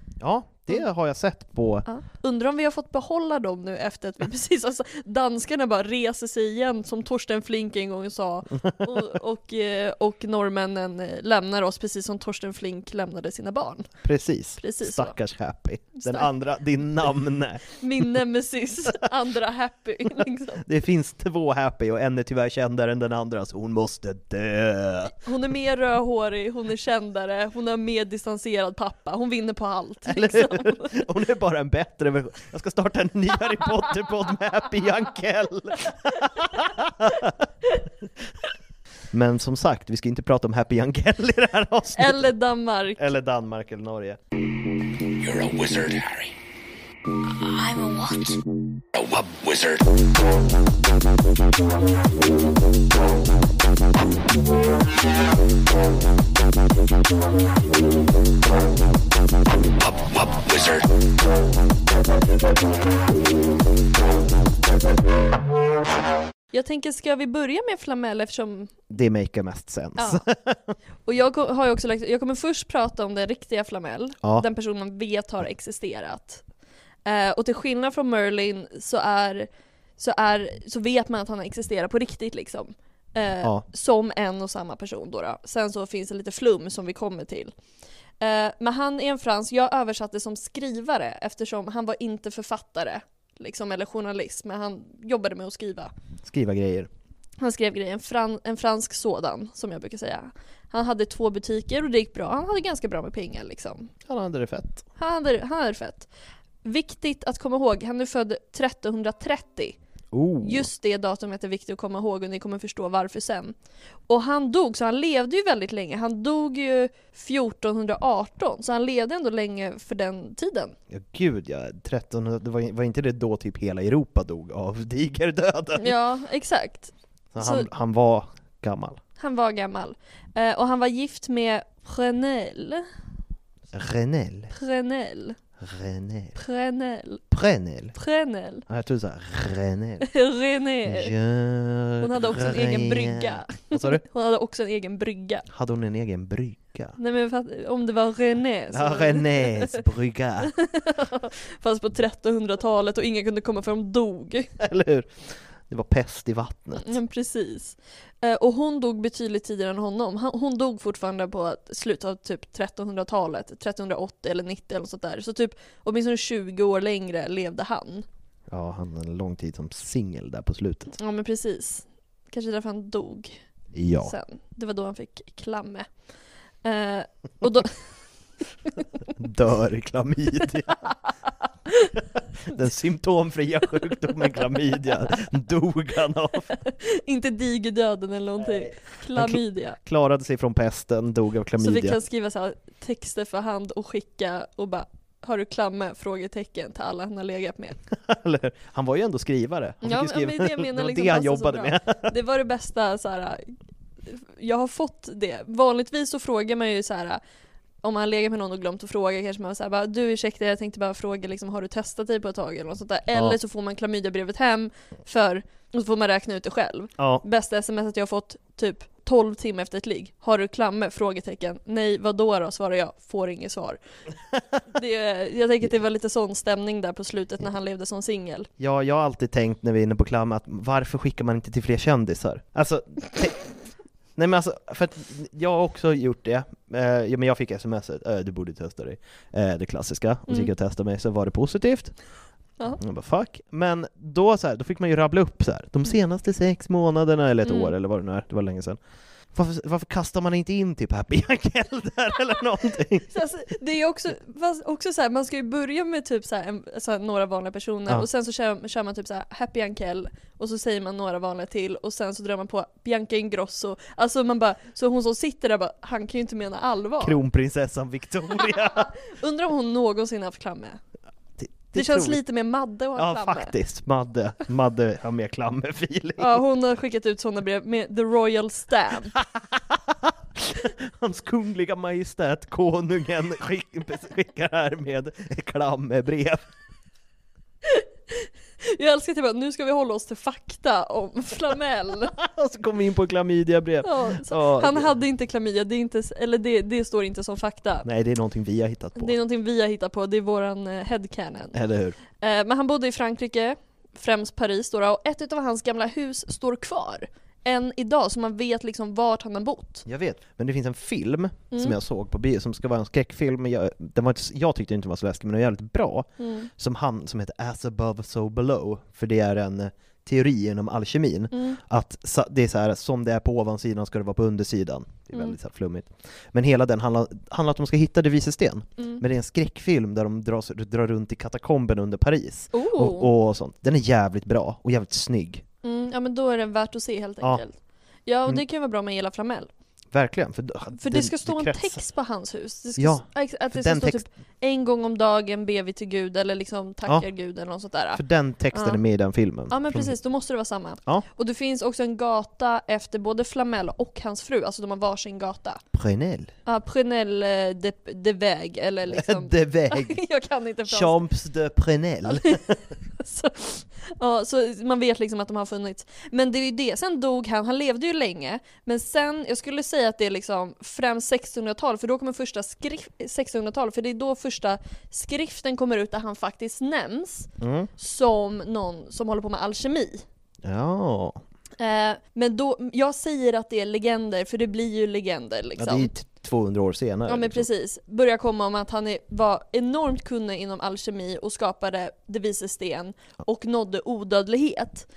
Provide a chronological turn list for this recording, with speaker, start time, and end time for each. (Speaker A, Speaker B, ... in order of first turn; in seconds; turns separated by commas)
Speaker A: 0.2-1.9, Speaker B: 1.9-13.9, Speaker A: 8.6-9.1, Speaker A: 14.0-18.1, Speaker B: 14.6-15.2, Speaker B: 16.0-16.3, Speaker B: 17.8-20.6, Speaker A: 20.6-25.2, Speaker B: 25.1-31.1, Speaker A: 30.1-37.4, Speaker A: 39.1-42.3, Speaker B: 42.0-43.1, Speaker A: 43.0-44.2, Speaker C: 45.2-46.4, Speaker C: 48.9-49.9, Speaker C: 59.8-60.9, Speaker B: 66.5-68.7, Speaker A: 68.9-70.8, Speaker B: 70.0-70.2, Speaker B: 71.1-76.4, Speaker B: 77.0-87.5, Speaker B: 88.2-95.9, Speaker A: 96.2-96.9, Speaker B: 97.4-103.9, Speaker A: 104.1-104.9, Speaker B: 105.0-106.1, Speaker B: 106.6-109.8, Speaker A: 110.1-110.7, Speaker B: 110.4-113.5, Speaker B: 114.1-120.8, Speaker A: 120.9-126.0, Speaker B: 125.8-127.7, Speaker A: 127.3-129.0, Speaker B: 129.2-132.9, Speaker A: 133.7-134.5, Speaker B: 134.5-135.4, Speaker A: 135.6-136.4, Speaker B: 136.3-137.2, Speaker A: 137.3-138.0, Speaker B: 137.9-138.7, Speaker A: 138.7-140.1, Speaker B: 140.0-141.1, Speaker A: 140.8-144.0, Speaker B: 142.0-145.4, Speaker A: 145.5-147.0, Speaker B: 147.0-149.8, Speaker A: 148.7-150.5, Speaker B: 150.6-154.5, Speaker A: 154.6-157.0, Speaker B: 156.8-168.1, Speaker A: 168.5-170.9, Speaker B: 171.0-173.4, Speaker A: 173.7-174.1, Speaker B: 174.0-175.9, Speaker B: 176.6-177.8, Speaker A: 179.2-180.9, Speaker A: 182.5-186.6, Speaker B: 186.5-189.8, Speaker A: 188.4-192.0, Speaker B: 191.6-197.8, Speaker A: 197.9-202.1, Speaker B: 199.8-203.5, Speaker B: 204.1-207.2, Speaker B: 207.8-223.8, Speaker A: 217.0-217.2, Speaker B: 224.7-228.5, Speaker A: 228.6-233.4, Speaker A: 234.2-241.9, Speaker A: 242.8-248.8, Speaker B: 247.4-247.7, Speaker A: 249.3-253.1, Speaker B: 253.1-267.2, Speaker A: 267.0-268.9, Speaker B: 268.4-270.8, Speaker A: 271.4-272.2, Speaker B: 271.7-273.5, Speaker A: 273.0-276.4, Speaker B: 276.2-279.1, Speaker A: 279.1-286.4, Speaker B: 287.6-292.1, Speaker A: 292.1-294.9, Speaker B: 293.8-297.9, Speaker A: 297.9-299.1, Speaker B: 299.0-301.6, Speaker A: 301.5-302.0, Speaker B: 302.2-309.9, Speaker A: 309.9-335.4, Speaker B: 316.2-316.5, Speaker B: 321.3-321.6, Speaker B: 332.5-333.1, Speaker B: 335.6-337.6, Speaker B: 338.1-339.5, Speaker A: 339.9-341.8, Speaker B: 340.8-348.0, Speaker A: 342.8-344.0, Speaker A: 347.9-350.0, Speaker B: 348.5-348.8, Speaker B: 349.5-355.6, Speaker A: 355.7-356.3, Speaker B: 356.5-361.1, Speaker A: 358.9-360.0, Speaker A: 360.7-362.6, Speaker B: 362.1-362.4, Speaker B: 363.0-380.0, Speaker A: 377.4-377.7, Speaker A: 380.4-381.2, Speaker B: 381.6-385.9, Speaker A: 385.6-387.5, Speaker B: 387.1-394.9